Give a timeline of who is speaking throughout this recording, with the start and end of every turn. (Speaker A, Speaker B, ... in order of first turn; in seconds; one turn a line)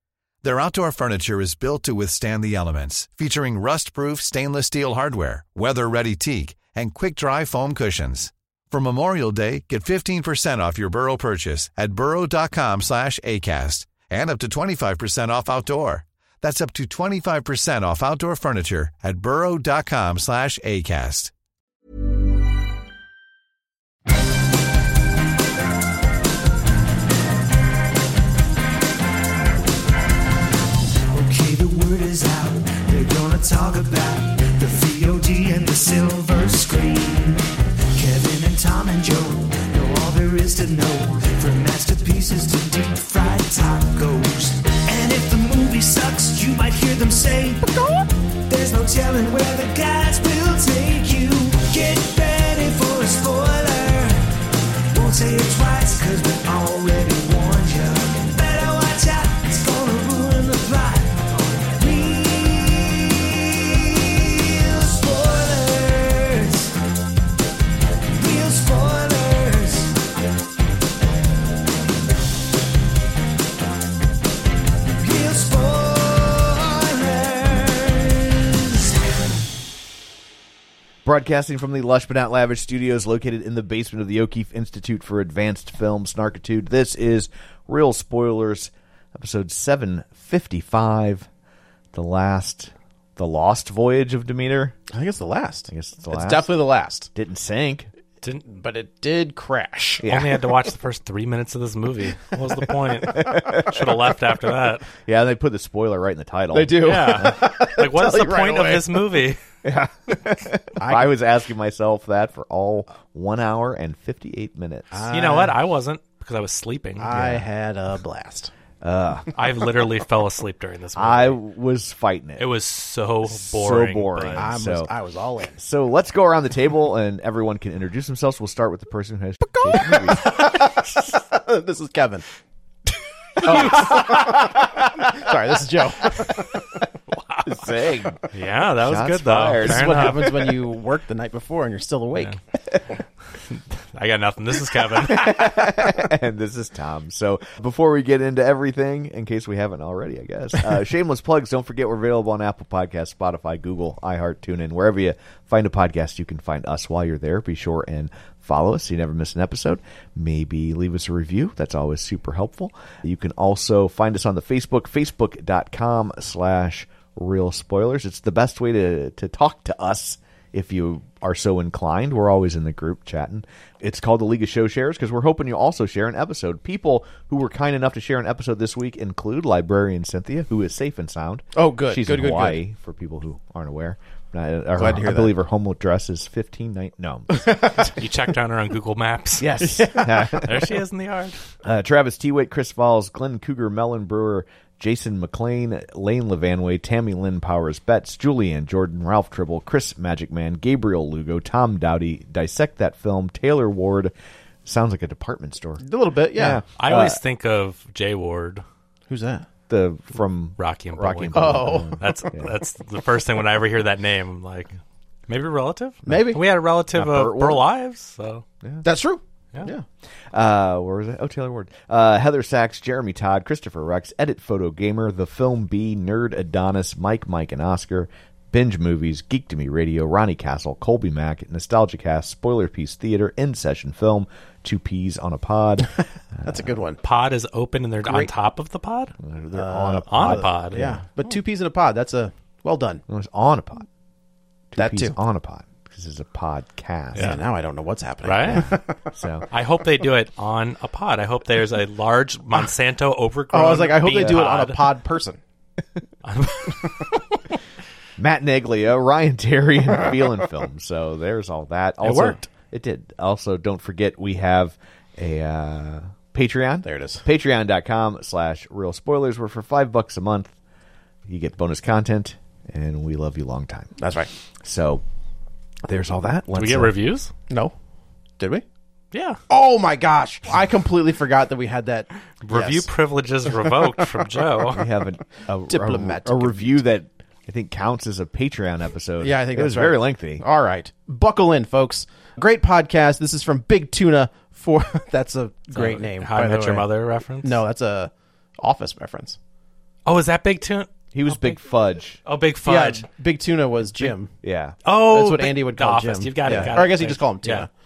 Speaker A: 0.4-21.3
Speaker B: 31.1-37.4
Speaker B: 37.9-47.6
Speaker B: 48.5-54.2
Speaker B: 54.9-66.7
Speaker B: 68.1-70.0
Speaker B: 75.0-78.9
Speaker C: 81.0-91.3
Speaker C: 91.9-94.8
Speaker D: 94.9-97.1
Speaker C: 95.7-96.5
Speaker C: 97.1-97.9
Speaker D: 98.5-100.0
Speaker C: 100.0-100.5
Speaker E: 100.0-104.8
Speaker C: 103.0-104.1
Speaker C: 105.0-107.4
Speaker D: 106.5-109.2
Speaker E: 106.8-109.4
Speaker C: 109.6-115.0
Speaker D: 110.8-111.1
Speaker D: 114.9-115.5
Speaker E: 115.1-117.1
Speaker D: 117.0-118.5
Speaker C: 117.1-117.5
Speaker C: 118.8-119.3
Speaker E: 119.3-121.4
Speaker C: 121.0-122.5
Speaker E: 122.4-124.5
Speaker C: 123.2-124.9
Speaker D: 124.4-125.6
Speaker C: 125.6-130.3
Speaker D: 129.6-132.2
Speaker E: 133.4-134.3
Speaker C: 133.4-135.2
Speaker D: 133.4-136.6
Speaker E: 137.1-137.6
Speaker C: 137.4-138.2
Speaker E: 138.3-140.3
Speaker C: 138.8-140.5
Speaker D: 139.6-142.3
Speaker E: 143.5-145.6
Speaker C: 145.0-187.7
Speaker D: 181.5-182.6
Speaker D: 184.8-185.3
Speaker D: 187.4-187.9
Speaker E: 187.7-189.5
Speaker C: 189.4-190.7
Speaker D: 189.6-190.4
Speaker E: 190.3-191.4
Speaker C: 191.6-204.1
Speaker C: 204.6-205.8
Speaker D: 205.8-206.6
Speaker C: 206.3-207.2
Speaker E: 206.8-208.6
Speaker D: 209.1-209.5
Speaker C: 209.7-212.5
Speaker E: 210.6-218.4
Speaker D: 211.3-212.1
Speaker D: 216.1-216.4
Speaker C: 216.9-217.6
Speaker D: 218.8-219.8
Speaker C: 220.3-236.7
Speaker D: 236.4-237.0
Speaker E: 237.0-239.1
Speaker D: 238.0-238.3
Speaker C: 239.2-241.0
Speaker D: 239.5-243.0
Speaker E: 240.1-240.9
Speaker C: 243.1-243.9
Speaker C: 244.7-247.4
Speaker D: 244.8-245.2
Speaker E: 247.1-247.4
Speaker D: 247.2-249.1
Speaker E: 248.2-248.7
Speaker C: 248.5-249.5
Speaker E: 249.5-254.8
Speaker D: 253.5-255.4
Speaker C: 254.1-254.4
Speaker E: 256.2-257.0
Speaker C: 258.2-270.5
Speaker E: 262.0-262.4
Speaker D: 266.8-267.2
Speaker C: 271.3-273.9
Speaker D: 274.0-274.3
Speaker C: 274.6-275.0
Speaker C: 275.8-276.9
Speaker E: 276.5-277.3
Speaker E: 279.1-279.4
Speaker D: 279.5-282.9
Speaker E: 282.4-284.8
Speaker D: 283.4-283.9
Speaker C: 284.7-290.4
Speaker D: 285.7-286.8
Speaker D: 289.2-296.9
Speaker E: 295.7-297.6
Speaker D: 297.4-299.4
Speaker E: 300.1-300.9
Speaker C: 301.1-302.2
Speaker E: 302.2-303.0
Speaker D: 302.6-304.3
Speaker C: 304.4-304.8
Speaker E: 304.8-307.7
Speaker D: 305.0-307.7